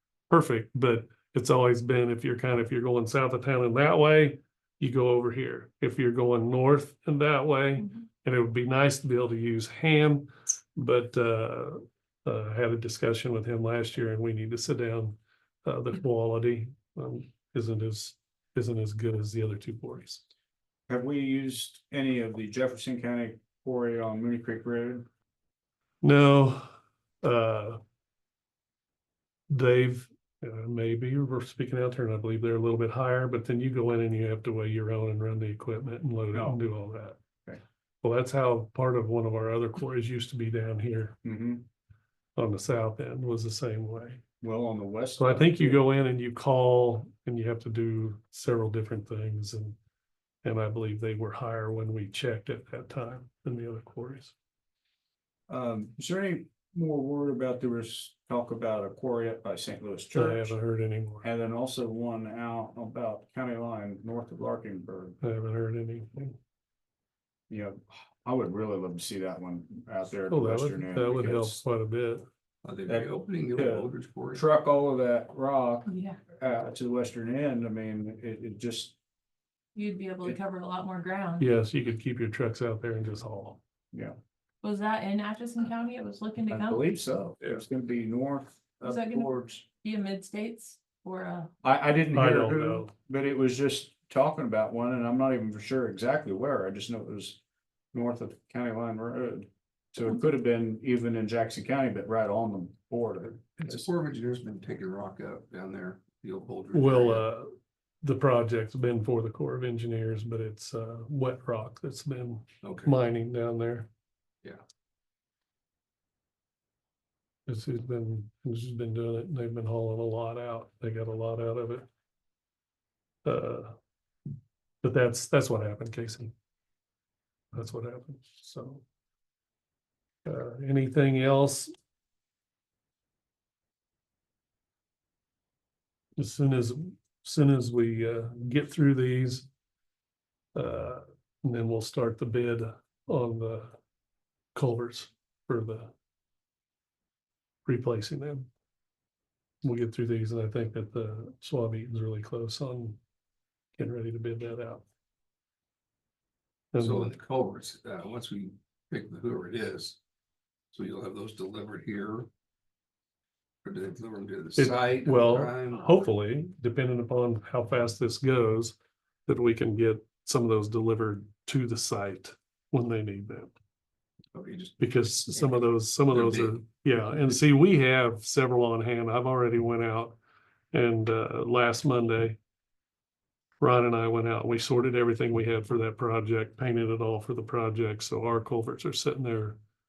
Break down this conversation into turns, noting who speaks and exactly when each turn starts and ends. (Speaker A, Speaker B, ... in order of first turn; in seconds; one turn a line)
Speaker A: 0.3-20.2
Speaker B: 20.9-25.1
Speaker A: 26.0-26.7
Speaker A: 27.2-27.8
Speaker A: 29.5-37.2
Speaker B: 36.3-36.6
Speaker A: 38.0-41.2
Speaker B: 41.2-41.6
Speaker A: 42.4-44.2
Speaker B: 44.4-45.8
Speaker A: 45.2-49.8
Speaker A: 50.4-54.3
Speaker B: 55.5-60.6
Speaker A: 60.1-61.2
Speaker B: 61.2-65.2
Speaker A: 65.2-66.4
Speaker B: 67.5-71.6
Speaker A: 70.3-72.2
Speaker C: 72.6-74.4
Speaker B: 72.9-79.0
Speaker D: 75.8-76.2
Speaker D: 79.7-81.5
Speaker A: 81.4-83.6
Speaker D: 84.6-86.8
Speaker B: 86.5-89.6
Speaker D: 88.8-91.5
Speaker B: 91.6-97.4
Speaker A: 92.1-92.9
Speaker B: 97.9-103.8
Speaker C: 103.6-107.2
Speaker A: 106.7-113.9
Speaker C: 112.6-112.9
Speaker A: 117.5-121.8
Speaker A: 123.2-123.7
Speaker A: 124.8-126.3
Speaker A: 127.5-128.8
Speaker A: 130.2-131.7
Speaker A: 136.2-139.5
Speaker A: 140.5-143.8
Speaker A: 144.5-145.9
Speaker A: 147.6-148.5
Speaker A: 149.6-153.0
Speaker A: 153.8-154.8
Speaker A: 156.7-157.1
Speaker C: 156.8-160.0
Speaker C: 160.7-162.3
Speaker C: 163.6-165.9
Speaker A: 164.6-173.5
Speaker C: 174.3-174.8
Speaker A: 174.8-180.2
Speaker C: 176.1-176.6
Speaker A: 180.7-182.4
Speaker A: 183.6-189.6